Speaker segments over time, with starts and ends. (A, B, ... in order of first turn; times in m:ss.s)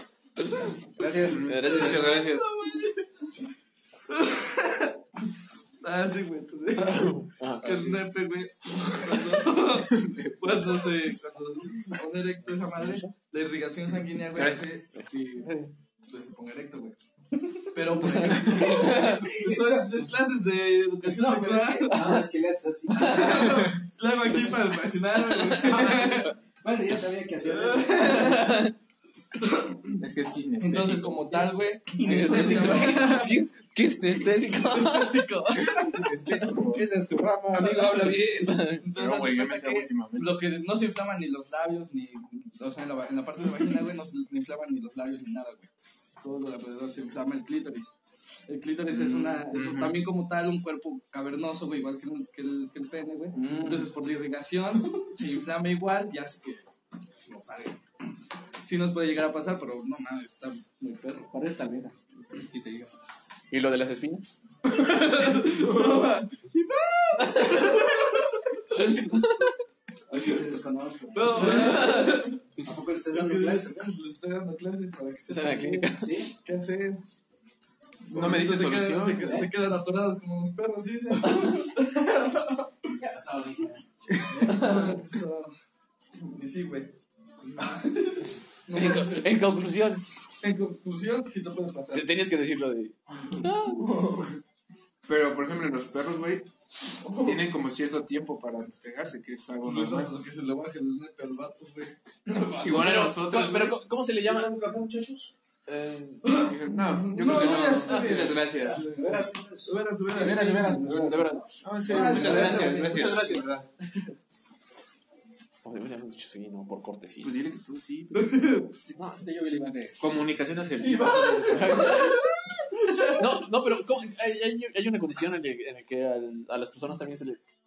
0:01.0-0:02.5 A
0:01.0-0:03.3 B
0:01.3-0:02.4 C
0:04.1-0:05.0 B
0:05.8-0:17.0 B
0:06.8-0:08.0 C
0:09.9-0:10.3 A
0:14.3-0:14.6 A
0:17.6-0:22.2 B
0:18.1-0:19.8 D
0:18.2-0:18.8 A
0:18.7-0:19.2 C
0:21.0-0:23.7 D
0:21.9-0:22.3 C
0:22.9-0:26.3 B
0:22.9-0:23.3 C
0:25.2-0:26.1 C
0:25.6-0:28.4 D
0:27.4-0:28.6 B
0:27.9-0:28.7 C
0:29.4-0:30.0 B
0:30.0-0:31.4 A
0:30.6-0:33.4 B
0:31.3-0:33.3 D
0:32.0-0:35.2 C
0:34.5-0:36.1 B
0:35.6-0:36.9 A
0:36.6-0:38.6 D
0:37.5-0:38.8 C
0:38.8-0:47.9 B
0:38.9-0:40.4 A
0:48.5-0:56.7 B
0:48.9-0:50.1 A
0:53.3-0:53.9 D
0:57.2-0:57.8 B
0:58.6-1:01.3 B
1:01.2-1:02.9 D
1:03.5-1:04.3 C
1:04.6-1:09.2 B
1:07.2-1:07.9 C
1:08.7-1:09.5 C
1:10.1-1:13.9 D
1:10.1-1:10.4 B
1:11.1-1:12.4 B
1:11.5-1:12.1 C
1:13.0-1:17.0 B
1:15.3-1:16.2 C
1:15.9-1:16.3 D
1:18.1-1:19.5 A
1:18.1-1:23.0 B
1:23.0-1:23.8 D
1:24.1-1:24.4 A
1:24.3-1:25.5 B
1:24.4-1:25.0 C
1:26.2-1:29.4 B
1:28.7-1:30.0 C
1:30.4-1:32.1 B
1:31.9-1:33.8 C
1:33.7-1:34.3 E
1:35.0-1:36.5 A
1:37.0-1:37.4 E
1:37.2-1:40.1 A
1:39.6-1:42.9 B
1:42.6-1:43.8 A
1:42.6-1:46.4 C
1:46.2-1:53.2 B
1:46.4-1:48.8 A
1:47.2-1:48.5 C
1:48.8-1:52.7 D
1:50.8-1:53.5 C
1:51.6-1:53.7 A
1:55.6-1:57.4 C
1:57.2-1:58.3 A
1:58.1-1:58.7 B
1:58.9-2:00.2 D
2:00.0-2:02.0 A
2:00.8-2:02.2 E
2:01.5-2:02.3 C
2:02.9-2:03.2 B
2:03.1-2:07.4 C